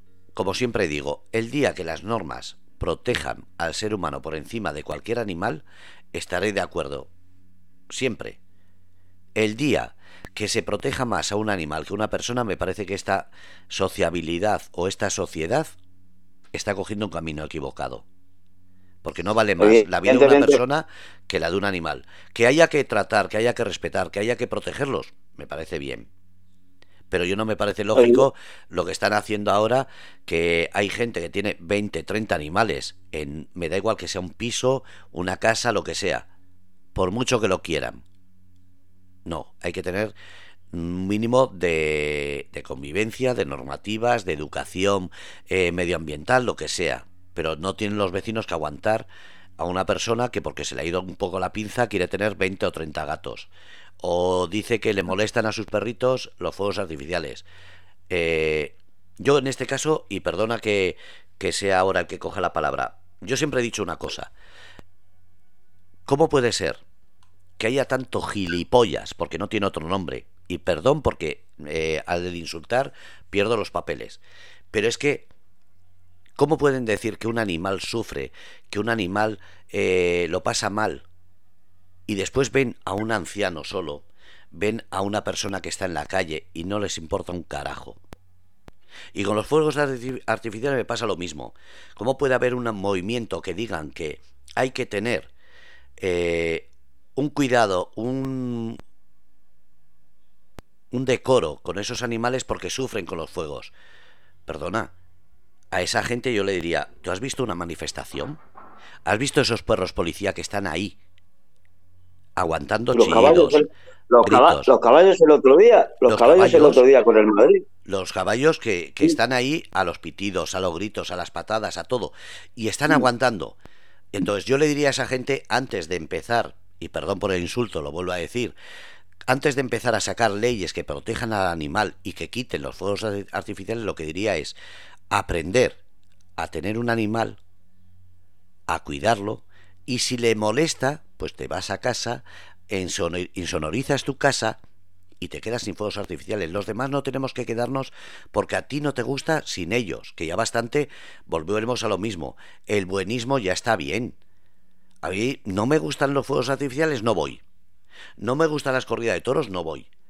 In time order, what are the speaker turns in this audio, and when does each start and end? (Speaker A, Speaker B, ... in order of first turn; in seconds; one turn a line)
Speaker A: 0.3-7.1
Speaker A: 7.9-8.4
Speaker A: 9.4-15.7
Speaker A: 16.5-18.0
Speaker A: 19.0-26.1
Speaker B: 19.6-20.6
Speaker A: 27.1-36.2
Speaker B: 27.9-28.2
Speaker A: 36.9-38.0
Speaker A: 39.2-40.1
Speaker A: 40.7-49.1
Speaker A: 49.6-53.5
Speaker A: 54.0-57.4
Speaker A: 58.1-64.3
Speaker A: 66.0-66.8
Speaker A: 67.6-74.2
Speaker A: 74.7-75.3
Speaker A: 76.3-81.0
Speaker A: 82.1-88.0
Speaker A: 89.1-95.3
Speaker A: 96.0-98.8
Speaker A: 100.9-103.7
Speaker A: 104.5-104.9
Speaker A: 105.7-108.4
Speaker A: 109.0-111.0
Speaker A: 112.3-113.6
Speaker B: 112.9-117.7
Speaker A: 114.2-114.7
Speaker A: 116.1-116.8
Speaker A: 117.8-123.5
Speaker A: 124.1-128.5
Speaker A: 129.3-134.5
Speaker A: 135.1-135.8
Speaker A: 136.4-137.4
Speaker A: 138.7-144.6
Speaker A: 145.2-154.2
Speaker A: 155.0-157.4
Speaker A: 158.2-159.9